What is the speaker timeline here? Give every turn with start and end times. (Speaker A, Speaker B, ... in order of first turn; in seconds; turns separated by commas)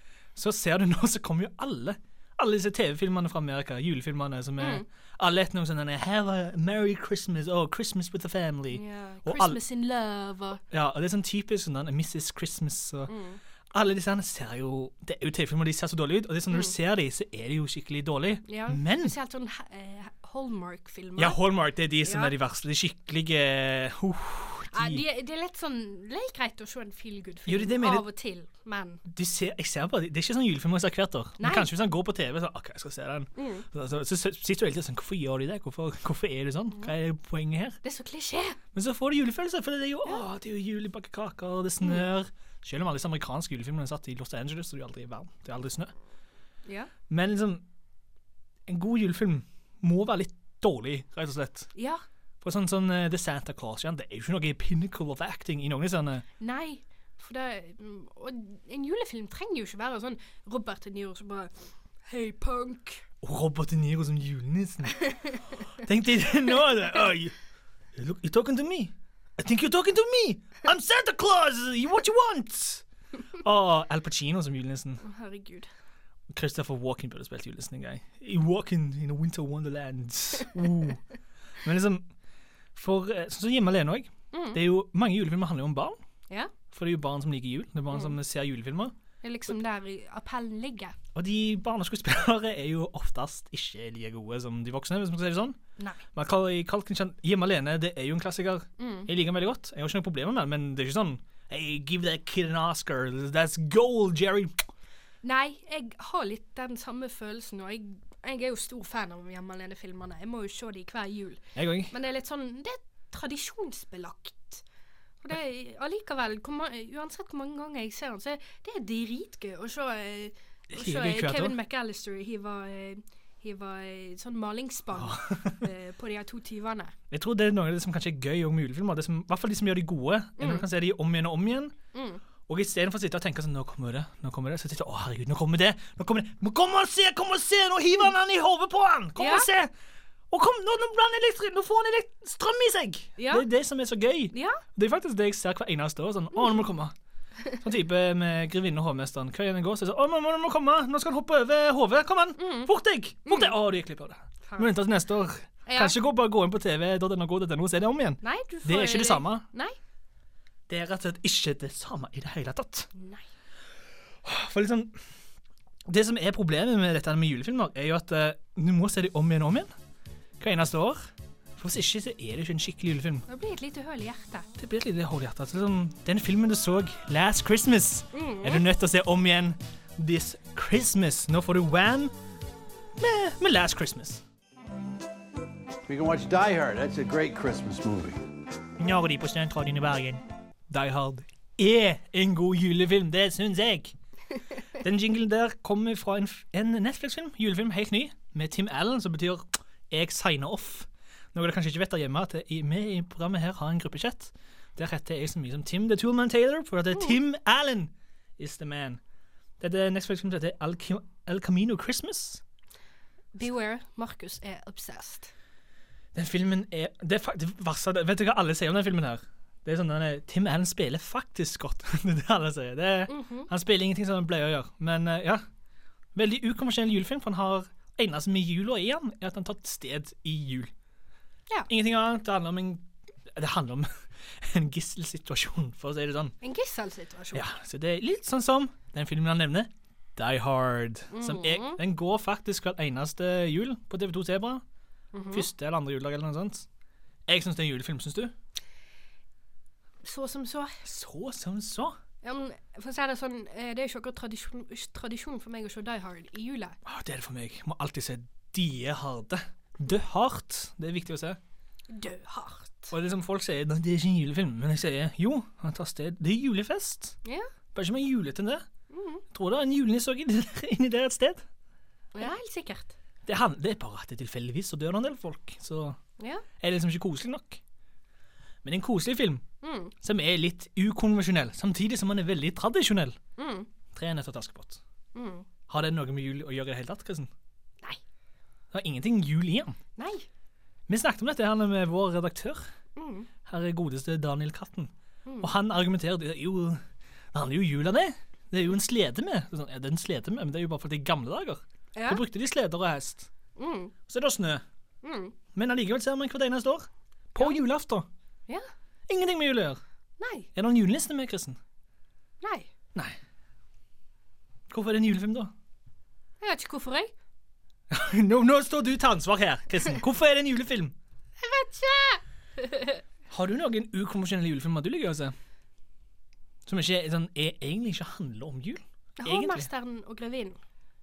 Speaker A: 0.3-9.6, Speaker B: 4.6-4.8, Speaker B: 8.7-10.6, Speaker A: 10.7-13.1, Speaker B: 13.1-13.4, Speaker A: 13.7-19.1, Speaker B: 18.5-21.4, Speaker A: 21.2-25.0, Speaker B: 22.0-22.3, Speaker B: 24.7-29.0, Speaker A: 27.4-28.1, Speaker A: 29.1-37.8, Speaker B: 31.4-31.7, Speaker B: 33.4-33.6, Speaker B: 37.8-38.6, Speaker A: 38.7-45.9, Speaker B: 46.6-46.9, Speaker A: 47.1-47.6, Speaker A: 48.7-51.7, Speaker B: 51.7-52.0, Speaker A: 52.4-56.2, Speaker B: 56.4-63.0, Speaker A: 63.2-65.2, Speaker A: 65.8-67.3, Speaker A: 67.9-72.8, Speaker A: 73.4-75.0, Speaker B: 75.0-75.7, Speaker A: 76.3-81.0, Speaker A: 81.6-82.1, Speaker A: 82.7-86.0, Speaker B: 84.3-84.6, Speaker A: 86.7-88.9, Speaker B: 89.2-91.0, Speaker A: 91.1-95.6, Speaker A: 96.1-104.6, Speaker B: 98.8-99.1, Speaker B: 105.2-114.6, Speaker A: 111.5-111.9, Speaker B: 115.2-126.9, Speaker A: 120.7-121.6, Speaker A: 124.9-125.7, Speaker A: 127.1-131.7, Speaker B: 130.4-130.6, Speaker B: 131.9-132.2, Speaker A: 132.4-139.7, Speaker B: 139.2-139.5, Speaker A: 140.3-146.9, Speaker B: 143.2-143.4, Speaker B: 144.3-144.6, Speaker B: 146.3-146.6, Speaker A: 147.6-159.4, Speaker B: 152.4-152.7, Speaker B: 153.2-153.5, Speaker B: 154.4-154.7, Speaker B: 155.7-156.0, Speaker B: 158.2-159.7, Speaker A: 160.7-162.9, Speaker B: 162.9-163.2, Speaker A: 164.2-165.0, Speaker A: 165.8-169.7, Speaker A: 170.4-173.2, Speaker B: 173.3-174.5, Speaker A: 174.6-182.1, Speaker B: 178.1-178.6, Speaker A: 183.0-184.2, Speaker C: 185.9-188.2, Speaker A: 188.8-193.9, Speaker A: 194.8-209.0, Speaker A: 209.6-212.4, Speaker B: 213.3-215.3, Speaker A: 216.1-225.4, Speaker B: 223.1-223.5, Speaker A: 226.1-230.7, Speaker A: 231.7-236.3, Speaker B: 236.4-237.4, Speaker A: 237.3-244.6, Speaker B: 241.1-241.8, Speaker B: 245.1-245.5, Speaker A: 245.3-246.7, Speaker A: 247.3-248.3, Speaker B: 250.0-250.8, Speaker A: 250.8-252.0, Speaker B: 252.2-256.8, Speaker A: 256.8-261.4, Speaker B: 261.9-262.9, Speaker A: 262.9-267.2, Speaker A: 267.7-268.6, Speaker B: 268.9-269.2, Speaker A: 269.3-271.4, Speaker B: 272.1-272.9, Speaker A: 273.2-276.0, Speaker B: 276.2-276.4, Speaker A: 276.6-277.6, Speaker A: 278.6-279.4, Speaker B: 279.6-279.9, Speaker A: 280.0-283.2, Speaker B: 283.4-283.7, Speaker A: 283.9-284.8, Speaker B: 285.1-285.4, Speaker A: 285.7-287.3, Speaker A: 288.7-289.8, Speaker B: 290.0-290.2, Speaker A: 290.9-292.7, Speaker B: 292.9-293.3, Speaker A: 293.4-303.3, Speaker B: 301.9-302.2, Speaker B: 303.6-303.9, Speaker A: 304.1-304.6, Speaker B: 305.0-305.3, Speaker A: 305.5-308.1, Speaker A: 309.1-309.8, Speaker B: 310.2-310.5, Speaker A: 310.5-311.6, Speaker B: 312.4-312.7, Speaker A: 314.7-315.5, Speaker B: 316.4-317.1, Speaker A: 317.9-320.9, Speaker B: 321.4-323.0, Speaker A: 323.3-325.3, Speaker A: 326.6-329.7, Speaker B: 329.2-330.6